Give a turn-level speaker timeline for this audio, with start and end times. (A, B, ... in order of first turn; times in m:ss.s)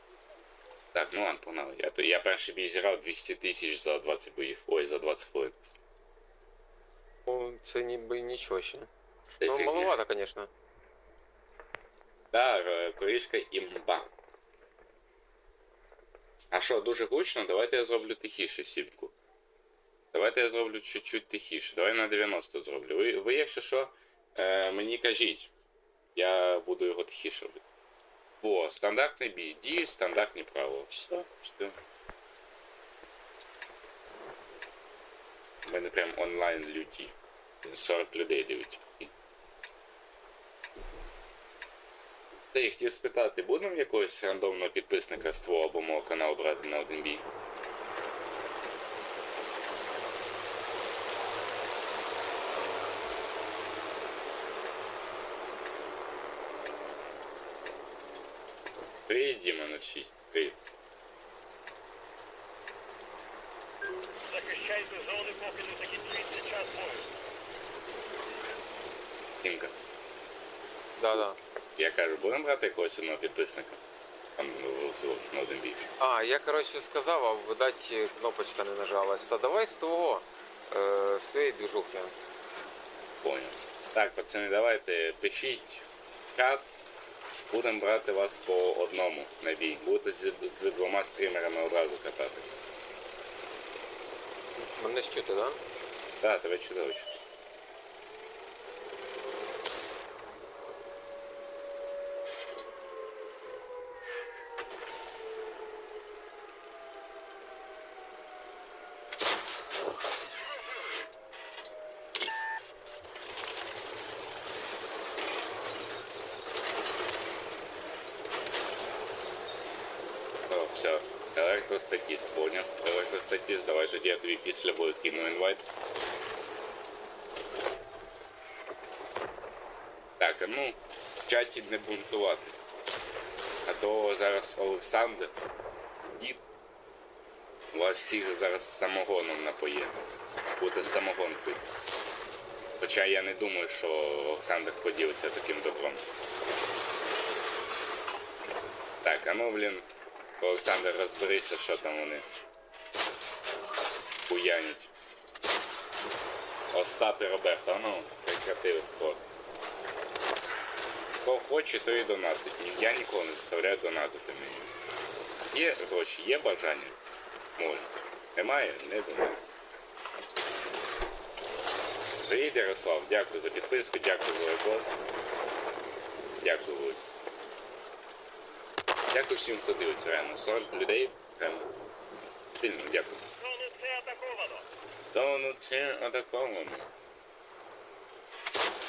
0:00.9-0:05.6 A
0:07.3-0:08.9 B
0:09.4-0:10.0 A
0:09.4-0:10.5 B
0:12.3-0:14.1 A
0:16.5-0:19.1 A
0:20.1-0:25.5 A
0:26.2-0:27.6 A
0:28.4-0:31.8 A
0:35.6-0:39.1 A
0:42.5-0:47.2 A
0:59.1-1:00.6 A
1:04.2-1:07.1 C
1:09.4-1:09.7 A
1:11.0-1:11.4 B
1:11.8-1:13.8 A
1:14.4-1:15.9 A
1:16.0-1:22.1 B
1:23.2-1:26.7 A
1:27.5-1:32.4 A
1:34.6-1:35.6 B
1:36.2-1:37.2 A
2:00.5-2:05.6 A
2:10.2-2:12.6 A
2:13.6-2:15.3 A
2:16.1-2:16.4 A
2:17.7-2:20.0 A
2:20.6-2:21.7 A
2:22.8-2:26.1 A
2:29.0-2:29.9 A
2:30.4-2:32.2 A
2:34.3-2:34.9 A
2:36.7-2:39.2 A
2:41.2-2:44.7 A
2:45.5-2:47.0 A
2:47.6-2:49.5 A
2:52.2-2:55.0 A
2:56.4-2:57.0 A
2:59.1-3:01.7 A
3:02.6-3:03.2 A
3:03.4-3:04.6 C
3:05.1-3:06.9 A